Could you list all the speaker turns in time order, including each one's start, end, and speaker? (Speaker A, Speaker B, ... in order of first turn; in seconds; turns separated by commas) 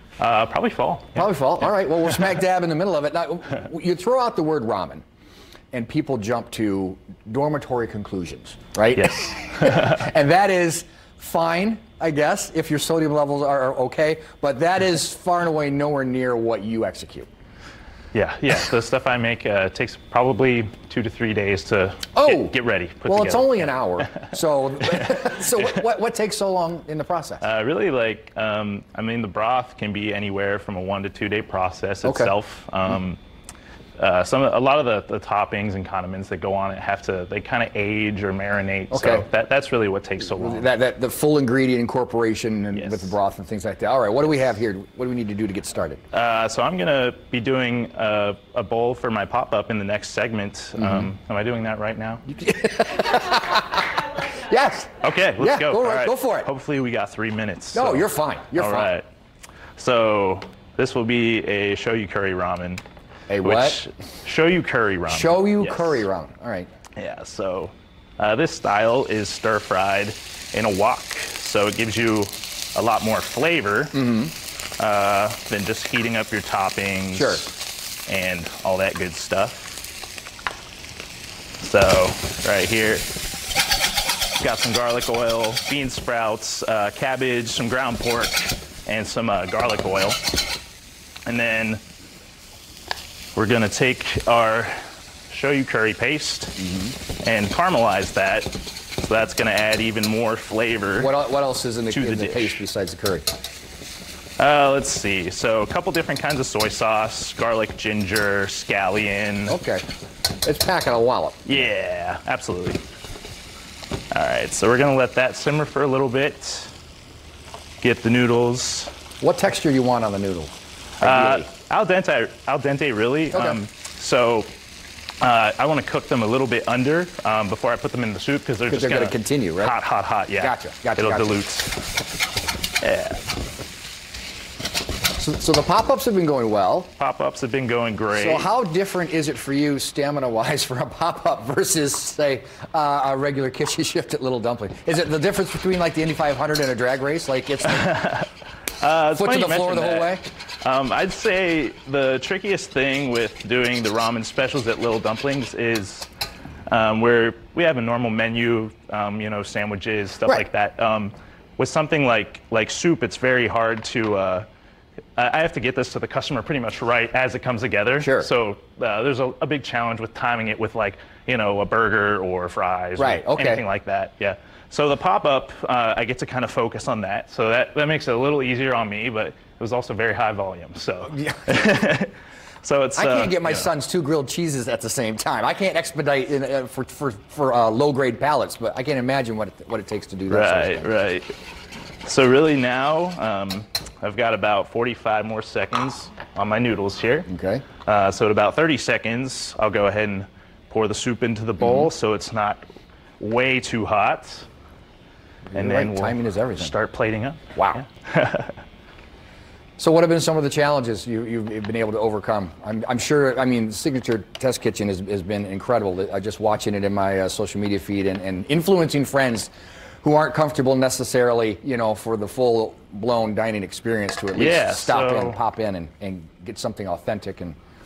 Speaker A: 0.2-1.3, Speaker B: 1.1-5.0, Speaker A: 1.8-2.2, Speaker B: 5.7-17.3, Speaker A: 8.9-10.0, Speaker A: 18.1-24.3, Speaker B: 22.1-27.5, Speaker A: 25.0-25.6, Speaker A: 27.4-33.2, Speaker B: 32.0-32.3, Speaker A: 34.0-40.7, Speaker B: 38.9-39.3, Speaker B: 40.3-46.0, Speaker A: 42.7-43.2, Speaker A: 46.1-52.2, Speaker B: 50.8-51.1, Speaker B: 52.3-56.5, Speaker A: 55.0-59.0, Speaker B: 57.7-58.9, Speaker A: 59.8-62.8, Speaker B: 63.3-63.8, Speaker A: 63.4-66.0, Speaker B: 65.1-66.7, Speaker A: 67.0-74.1, Speaker B: 73.9-74.3, Speaker A: 74.8-77.5, Speaker B: 77.1-77.4, Speaker A: 78.1-79.8, Speaker A: 81.6-83.1, Speaker A: 84.4-90.2, Speaker A: 91.2-91.8, Speaker A: 93.3-96.6, Speaker B: 96.6-96.9, Speaker A: 97.2-101.1, Speaker B: 101.0-103.2, Speaker A: 101.9-102.6, Speaker A: 104.4-109.6, Speaker B: 109.5-109.8, Speaker B: 110.4-111.7, Speaker A: 111.4-112.8, Speaker A: 114.1-116.7, Speaker A: 117.8-118.9, Speaker B: 119.2-121.5, Speaker A: 121.0-124.5, Speaker B: 123.3-123.6, Speaker A: 125.2-131.8, Speaker B: 128.7-129.8, Speaker B: 130.4-131.4, Speaker A: 132.8-133.2, Speaker B: 135.1-136.9, Speaker A: 137.0-138.5, Speaker B: 138.1-148.0, Speaker A: 147.7-148.3, Speaker A: 148.8-156.1, Speaker B: 149.1-150.2, Speaker A: 156.7-164.4, Speaker A: 165.2-183.7, Speaker B: 168.0-168.3, Speaker B: 173.0-173.6, Speaker B: 181.1-181.5, Speaker B: 182.9-191.0, Speaker A: 190.3-191.3, Speaker A: 192.0-197.3, Speaker B: 197.3-197.6, Speaker A: 197.8-202.6, Speaker B: 201.6-201.9, Speaker A: 203.2-204.4, Speaker B: 205.5-206.7, Speaker A: 205.5-208.6, Speaker B: 207.5-207.8, Speaker B: 209.8-219.5, Speaker B: 220.0-227.6, Speaker A: 224.3-225.4